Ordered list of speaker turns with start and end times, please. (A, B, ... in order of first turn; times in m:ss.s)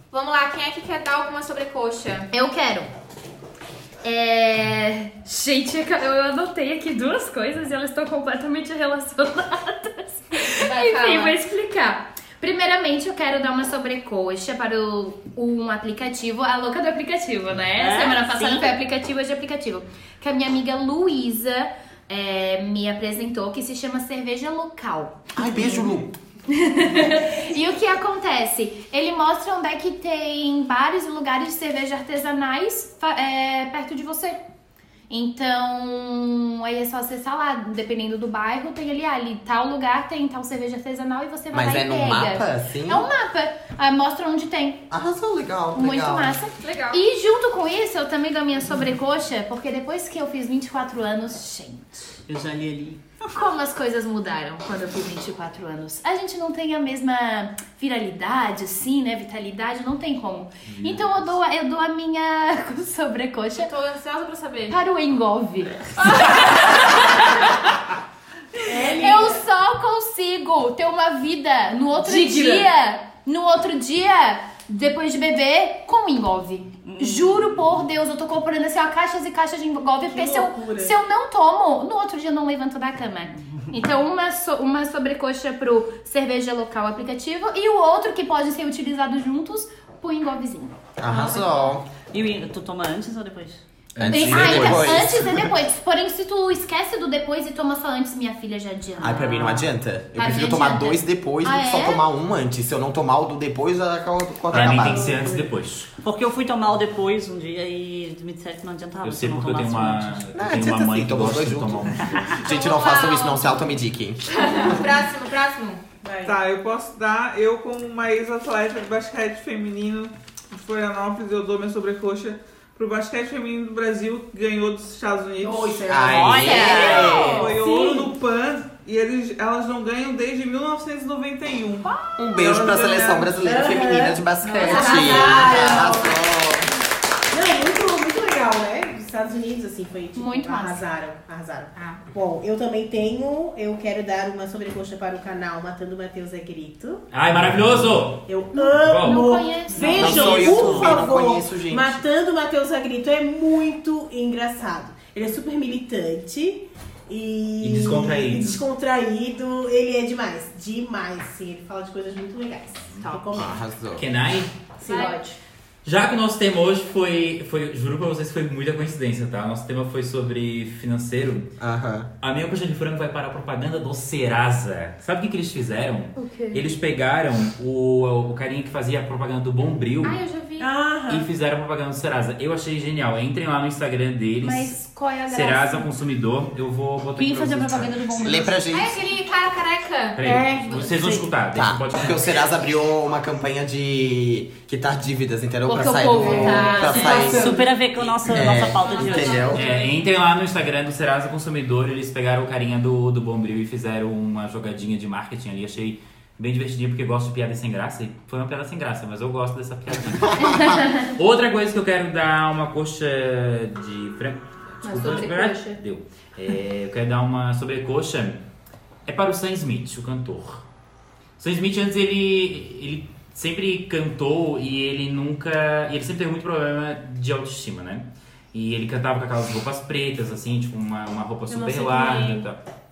0:00.1-0:02.3 A
0:02.3-0:02.9 B
0:04.0-0:25.6 B
0:10.6-0:11.4 A
0:17.8-0:18.7 C
0:25.4-0:26.1 D
0:26.5-0:34.4 B
0:35.1-0:44.9 B
0:41.5-0:43.1 D
0:44.9-0:46.4 D
0:45.7-0:52.1 B
0:46.6-0:47.0 A
0:52.3-0:53.0 C
0:53.3-1:03.7 B
1:00.7-1:01.4 E
1:03.5-1:04.8 A
1:04.7-1:07.6 B
1:06.1-1:06.5 A
1:08.6-1:09.4 F
1:08.8-1:30.8 B
1:12.0-1:12.7 F
1:16.8-1:17.7 C
1:20.0-1:21.0 F
1:23.4-1:23.7 C
1:31.0-1:31.8 D
1:32.1-1:33.6 C
1:33.9-1:35.4 E
1:34.0-1:35.5 D
1:34.1-1:42.0 B
1:39.0-1:45.2 D
1:44.5-1:45.9 E
1:44.9-1:45.5 F
1:46.0-1:50.3 C
1:49.0-1:52.4 E
1:50.3-1:54.2 D
1:52.0-1:52.3 C
1:52.4-1:53.7 A
1:54.3-1:55.8 A
1:56.0-1:56.4 F
1:56.2-2:06.0 G
2:05.4-2:08.2 F
2:05.9-2:07.5 D
2:06.1-2:07.3 C
2:06.5-2:07.5 B
2:06.6-2:07.3 A
2:06.8-2:11.9 G
2:12.2-2:16.7 D
2:12.4-2:16.2 F
2:12.6-2:13.5 G
2:14.5-2:16.0 A
2:14.7-2:16.0 B
2:17.3-2:27.1 F
2:20.2-2:20.8 B
2:21.8-2:22.0 A
2:27.1-2:29.4 E
2:28.3-2:43.6 F
2:28.5-2:30.5 B
2:29.7-2:31.1 C
2:30.0-2:32.0 D
2:37.6-2:38.7 E
2:43.3-2:44.1 D
2:44.0-2:44.6 E
2:44.8-2:45.2 F
2:44.8-2:45.4 B
2:44.9-2:45.2 A
2:45.8-2:51.5 E
2:51.6-2:52.1 D
2:52.2-3:00.2 E
2:56.2-2:56.7 B
3:00.0-3:00.7 A
3:00.6-3:01.3 F
3:01.1-3:08.1 E
3:04.4-3:05.9 B
3:07.2-3:08.5 B
3:08.2-3:08.9 D
3:08.7-3:10.9 A
3:10.2-3:12.3 E
3:10.2-3:10.7 F
3:10.9-3:11.3 C
3:11.5-3:17.6 D
3:15.7-3:17.5 B
3:16.2-3:17.6 F
3:16.9-3:19.5 C
3:18.2-3:19.6 D
3:18.8-3:20.0 A
3:19.5-3:38.4 E
3:30.1-3:30.8 D
3:30.4-3:31.1 B
3:34.8-3:35.8 B
3:39.1-3:40.6 E
3:41.4-3:52.6 E
3:51.6-3:52.4 F